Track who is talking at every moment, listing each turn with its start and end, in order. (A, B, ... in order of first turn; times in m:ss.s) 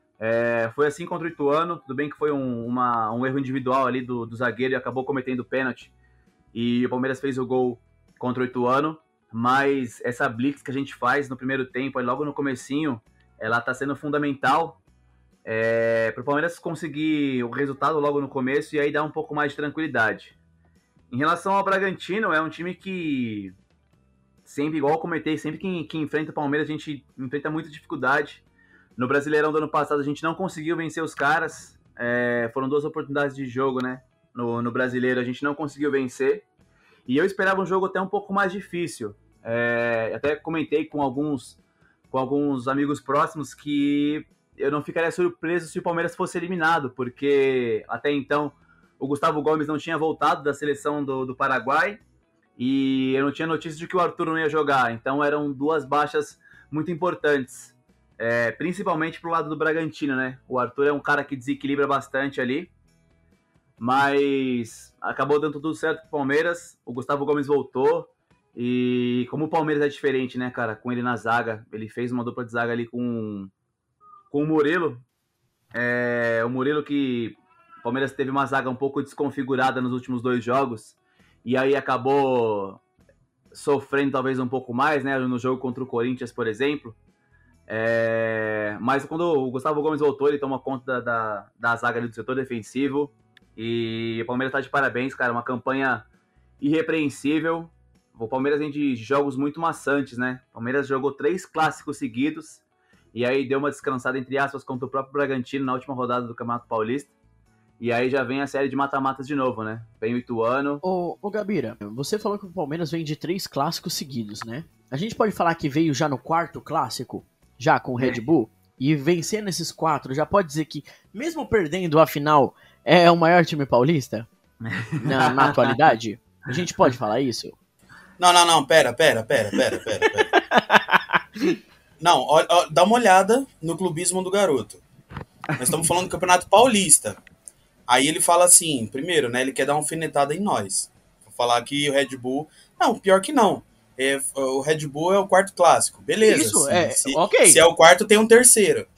0:00.2-0:05.9 A
0:06.5-0:14.8 A
0:15.4-0:20.4 A
0:21.1-0:23.5 A
0:24.4-0:28.4 A
0:29.0-0:36.4 A
0:37.0-0:41.6 A
0:42.1-0:52.0 A
0:52.6-1:02.7 A
1:03.8-1:13.5 A
1:14.3-1:15.0 A
1:15.7-1:22.8 A
1:23.5-1:27.0 A
1:27.7-1:36.1 A
1:36.6-1:42.6 A
1:43.1-1:47.1 A
1:47.8-1:50.8 A
1:50.8-2:04.3 B
2:04.6-2:05.8 A
2:05.0-2:07.5 B
2:08.2-2:10.3 C
2:10.5-2:11.5 B
2:12.0-2:14.8 C
2:15.6-2:17.2 C
2:17.9-2:28.9 C
2:26.2-2:27.6 B